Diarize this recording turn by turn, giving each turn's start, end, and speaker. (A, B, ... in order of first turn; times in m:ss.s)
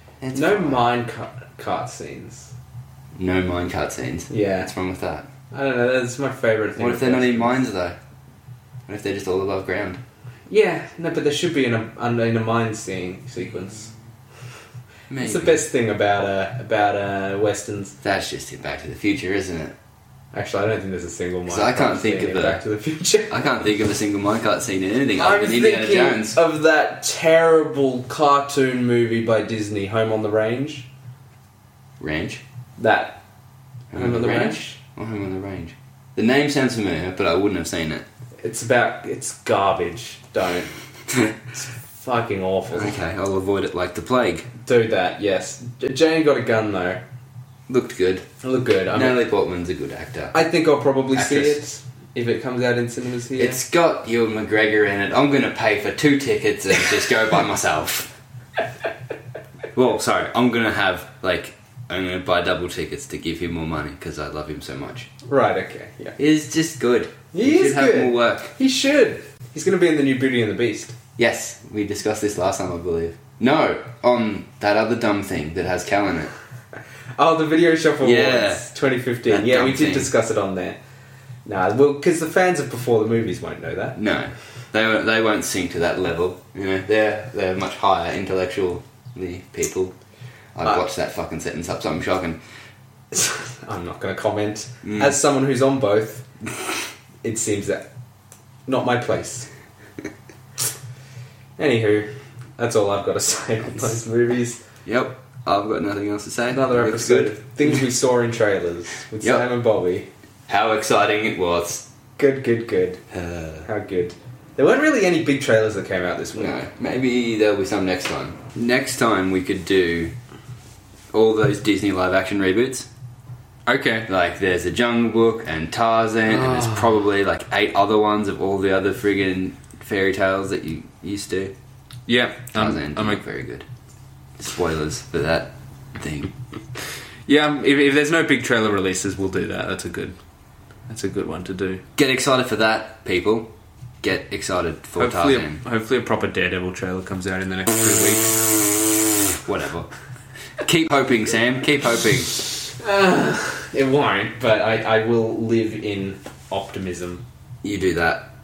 0:00.2-0:00.9 A
0:00.4-0:02.5 B
0:03.2-0:05.3 A
0:04.3-0:04.7 B
0:05.5-0:07.6 B
0:06.8-0:08.0 A
0:08.9-0:10.0 A
0:10.5-0:13.9 B
0:15.1-0:15.6 A
0:15.2-0:18.0 B
0:18.0-0:19.8 A
0:20.3-0:23.5 B
0:21.5-0:22.6 A
0:23.3-0:26.4 A
0:25.2-0:30.9 B
0:32.0-0:32.4 A
0:32.8-0:33.2 B
0:33.9-0:38.0 A
0:33.9-0:34.8 B
0:38.4-0:40.7 B
0:41.6-0:43.0 B
0:42.7-0:44.5 A
0:44.6-0:47.0 B
0:47.7-0:48.3 A
0:48.4-0:49.2 B
0:48.9-0:50.4 A
0:50.3-0:53.6 B
0:51.1-0:51.6 A
0:53.4-0:58.1 A
0:59.8-1:05.1 A
1:05.3-1:06.2 B
1:06.2-1:08.5 A
1:07.3-1:11.0 B
1:11.2-1:16.3 A
1:17.2-1:20.8 B
1:18.0-1:18.6 A
1:19.3-1:20.1 A
1:21.5-1:24.0 B
1:24.0-1:29.9 A
1:30.6-1:32.4 A
1:33.1-1:36.2 B
1:34.8-1:35.2 A
1:37.2-1:37.9 B
1:38.7-1:39.5 B
1:41.6-1:44.6 B
1:44.8-1:47.8 A
1:46.5-1:50.1 B
1:50.5-1:51.9 A
1:52.2-1:53.0 B
1:53.1-1:53.7 A
1:53.6-1:56.6 B
1:56.4-2:00.1 A
2:01.1-2:02.9 A
2:03.7-2:04.1 B
2:04.1-2:11.5 A
2:12.1-2:13.2 B
2:12.6-2:13.7 A
2:14.4-2:16.3 A
2:17.3-2:20.2 B
2:20.9-2:21.8 B
2:22.0-2:23.5 A
2:24.0-2:25.6 A
2:25.0-2:28.5 B
2:29.4-2:29.9 A
2:30.6-2:32.4 A
2:32.8-2:37.2 B
2:37.6-2:38.3 A